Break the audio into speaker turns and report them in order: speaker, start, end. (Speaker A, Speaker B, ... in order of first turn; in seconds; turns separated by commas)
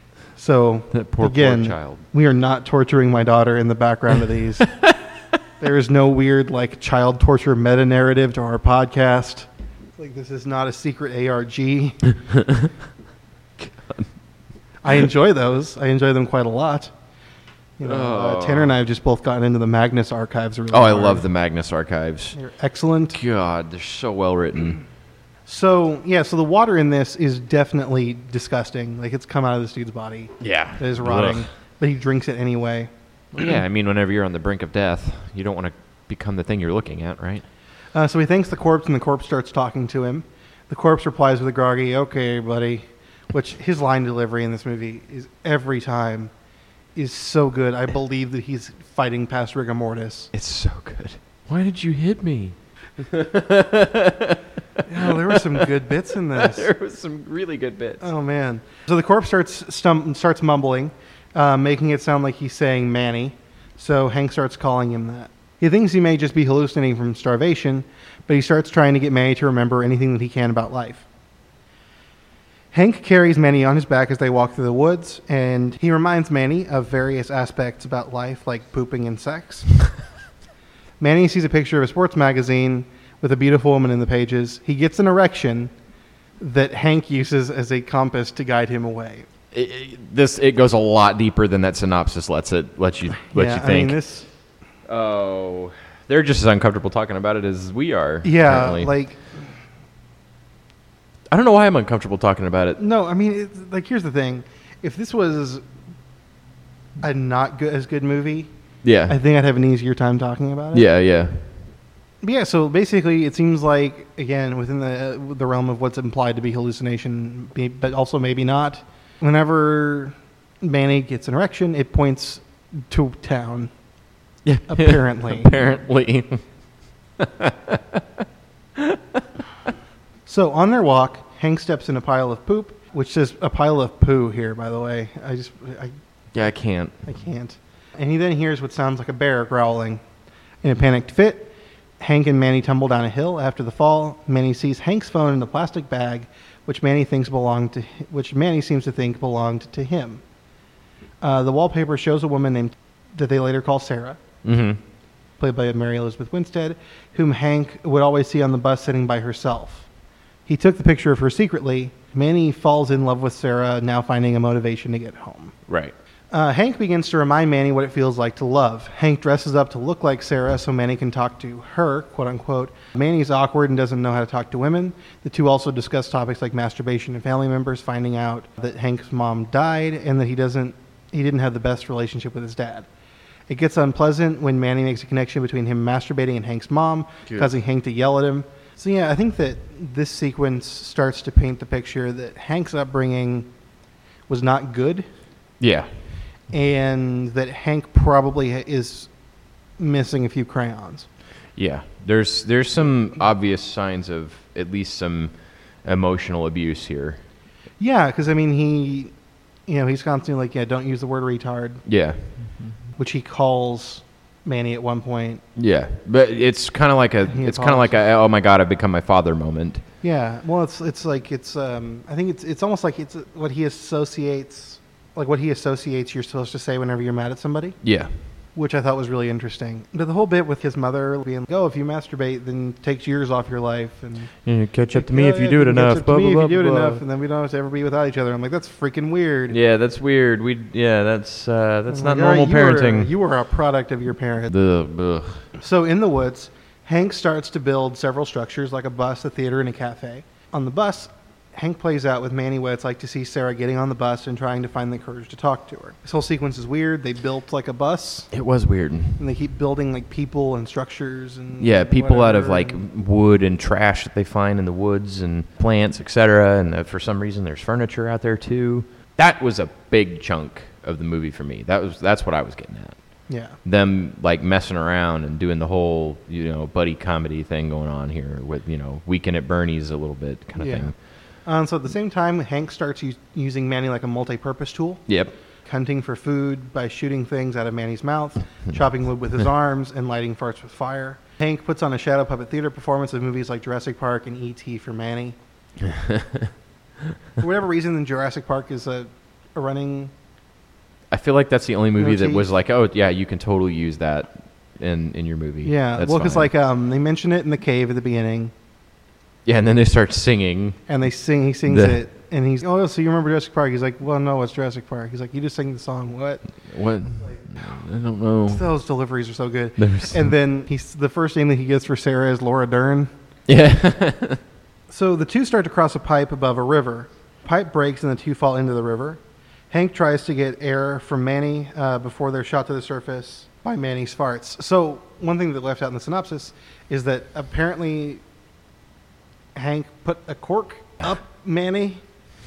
Speaker A: 0.4-4.7, Speaker B: 0.9-2.0, Speaker A: 5.6-12.1, Speaker B: 12.3-12.7, Speaker B: 13.6-14.1, Speaker A: 14.8-16.9, Speaker A: 17.8-21.3, Speaker B: 17.8-18.7, Speaker B: 20.7-22.4, Speaker A: 22.4-23.2, Speaker B: 23.1-24.8, Speaker A: 25.5-32.9, Speaker B: 30.4-31.4, Speaker B: 33.3-37.5, Speaker A: 37.9-46.3, Speaker A: 47.0-50.3, Speaker B: 50.3-54.4, Speaker A: 54.9-56.7, Speaker B: 55.0-55.7, Speaker B: 56.3-58.0, Speaker A: 58.0-71.0, Speaker A: 72.7-79.7, Speaker A: 81.0-85.7, Speaker A: 86.4-89.3, Speaker B: 89.5-94.0, Speaker A: 93.3-94.3, Speaker B: 94.9-98.9, Speaker A: 98.2-99.4, Speaker B: 101.3-102.8, Speaker A: 102.8-105.6, Speaker A: 107.0-108.5, Speaker B: 108.8-109.2, Speaker A: 109.1-110.9, Speaker B: 110.7-111.4, Speaker A: 112.2-123.7, Speaker B: 124.4-126.4, Speaker A: 124.7-125.5, Speaker B: 127.2-128.2, Speaker B: 128.8-129.2, Speaker A: 130.2-135.9, Speaker B: 136.3-137.0, Speaker A: 137.0-140.0, Speaker A: 140.6-150.2, Speaker A: 151.2-154.2, Speaker B: 154.4-154.8, Speaker A: 155.4-159.9, Speaker A: 160.5-165.5, Speaker B: 165.7-165.9, Speaker A: 166.3-182.9, Speaker A: 183.5-193.5, Speaker A: 194.3-195.1, Speaker B: 195.6-195.9, Speaker A: 196.5-199.1, Speaker A: 199.8-201.1, Speaker B: 201.6-207.2, Speaker A: 207.8-209.1, Speaker A: 209.7-211.8, Speaker B: 211.9-212.7, Speaker A: 213.0-215.4, Speaker B: 215.6-219.8, Speaker A: 217.3-218.0, Speaker A: 220.0-227.8, Speaker B: 227.8-228.1, Speaker A: 228.5-234.3, Speaker B: 234.4-237.0, Speaker A: 234.9-239.6, Speaker B: 239.5-243.1, Speaker A: 241.9-244.5, Speaker B: 244.5-245.5, Speaker A: 245.6-258.3, Speaker B: 258.3-259.2, Speaker A: 259.2-262.9, Speaker B: 261.6-273.0, Speaker A: 273.3-273.6, Speaker B: 273.6-280.9, Speaker A: 280.6-280.9, Speaker A: 281.4-285.0, Speaker B: 285.1-285.3, Speaker A: 285.6-295.4, Speaker B: 295.8-296.5, Speaker A: 297.4-300.1, Speaker B: 301.1-306.5, Speaker A: 302.0-302.5, Speaker A: 305.6-308.5, Speaker B: 309.4-310.8, Speaker A: 310.9-316.4, Speaker B: 311.7-312.0, Speaker B: 316.7-318.6, Speaker A: 318.5-323.1, Speaker B: 319.8-320.3, Speaker B: 323.5-324.4, Speaker A: 324.9-329.2, Speaker A: 329.7-338.2, Speaker A: 339.5-342.0